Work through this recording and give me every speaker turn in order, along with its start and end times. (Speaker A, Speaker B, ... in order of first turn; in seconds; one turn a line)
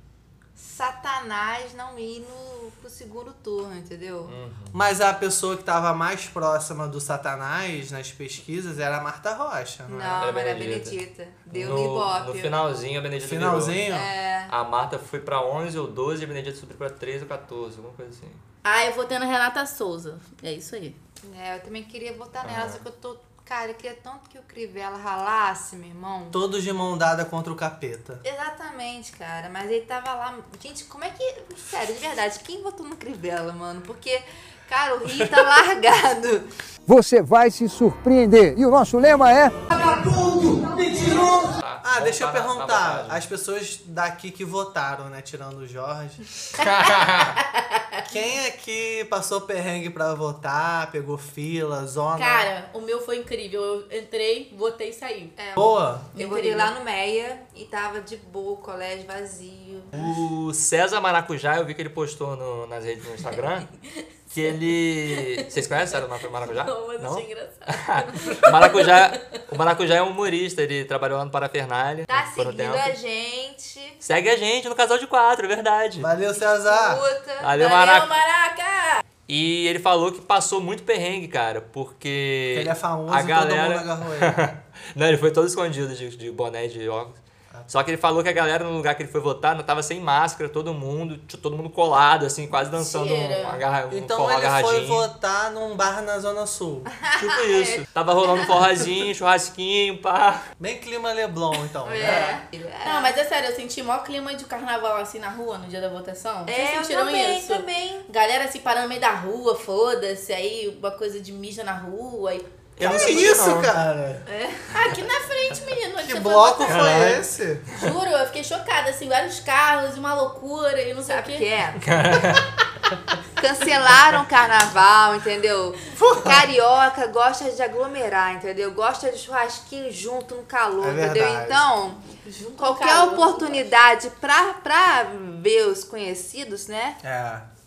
Speaker A: 0.6-4.3
Speaker B: 4.3-4.8
Speaker C: 4.7-10.2
Speaker A: 9.9-12.6
Speaker B: 10.2-13.8
Speaker C: 13.2-14.1
Speaker A: 13.9-14.5
Speaker B: 14.5-18.4
Speaker D: 18.6-21.0
Speaker A: 21.2-26.4
Speaker B: 22.4-22.8
Speaker C: 26.3-28.2
Speaker A: 28.2-36.5
Speaker E: 36.9-41.5
Speaker B: 41.6-43.3
Speaker C: 41.8-46.2
Speaker B: 46.6-47.4
Speaker C: 48.0-52.5
Speaker D: 52.2-55.3
Speaker A: 55.4-59.9
Speaker C: 55.6-56.1
Speaker D: 56.1-56.7
Speaker B: 59.9-63.7
Speaker B: 64.3-73.0
Speaker D: 65.1-69.2
Speaker A: 72.1-74.0
Speaker B: 74.0-76.1
Speaker C: 76.0-77.0
Speaker A: 76.4-77.9
Speaker B: 77.4-78.1
Speaker D: 77.6-79.0
Speaker B: 79.3-95.1
Speaker C: 82.5-84.5
Speaker D: 92.8-93.6
Speaker C: 93.9-96.9
Speaker B: 97.1-100.4
Speaker A: 97.3-98.5
Speaker C: 100.6-102.3
Speaker A: 101.8-103.2
Speaker B: 102.0-102.4
Speaker D: 102.8-112.5
Speaker A: 106.5-108.1
Speaker B: 112.8-113.8
Speaker C: 112.8-114.2
Speaker A: 114.3-114.9
Speaker D: 114.7-117.2
Speaker C: 116.0-117.7
Speaker B: 116.7-117.1
Speaker D: 117.8-121.5
Speaker A: 121.0-122.2
Speaker B: 121.8-122.5
Speaker A: 123.4-132.0
Speaker C: 125.9-126.4
Speaker C: 130.8-131.7
Speaker D: 132.1-133.7
Speaker A: 132.6-137.0
Speaker C: 137.0-137.5